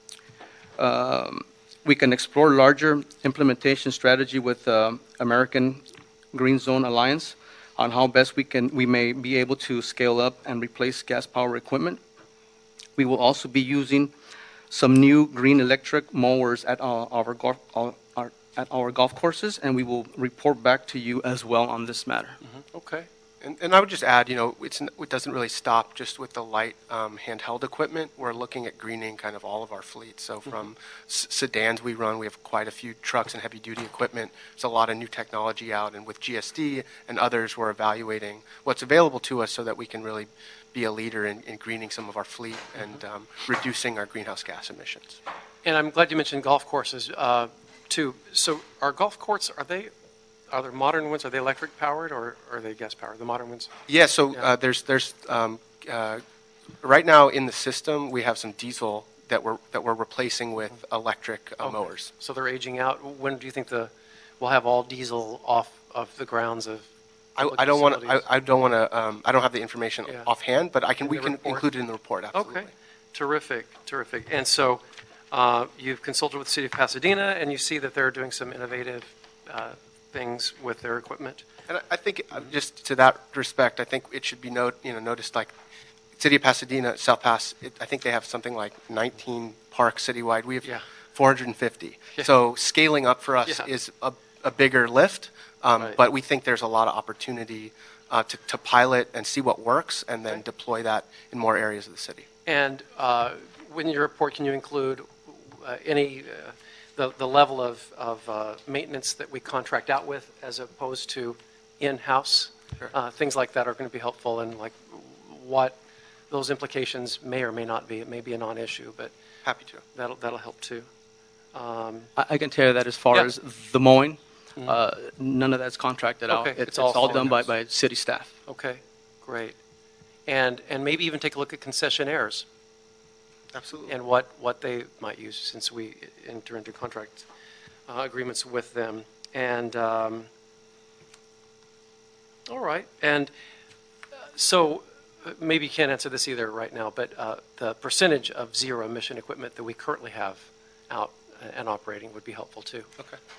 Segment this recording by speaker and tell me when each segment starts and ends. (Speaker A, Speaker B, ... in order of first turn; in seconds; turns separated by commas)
Speaker A: 0.8-12.0, Speaker A: 12.9-14.1, Speaker A: 14.7-22.4, Speaker B: 22.6-23.1, Speaker C: 23.4-45.2, Speaker B: 45.6-49.9, Speaker B: 50.5-53.7, Speaker C: 53.9-56.2, Speaker C: 56.8-62.1, Speaker B: 61.6-68.2, Speaker C: 67.4-72.7, Speaker B: 71.0-71.7, Speaker B: 72.3-81.4, Speaker C: 81.7-85.5, Speaker C: 86.2-102.3, Speaker B: 102.5-115.8, Speaker B: 116.3-119.1, Speaker C: 119.4-119.8, Speaker B: 119.9-120.9, Speaker B: 121.5-122.1, Speaker A: 122.2-128.3, Speaker B: 126.3-127.5, Speaker B: 128.5-129.6, Speaker B: 130.2-132.4, Speaker C: 133.5-133.9, Speaker B: 133.8-137.2, Speaker B: 137.9-140.3, Speaker B: 142.5-143.3, Speaker B: 144.2-152.9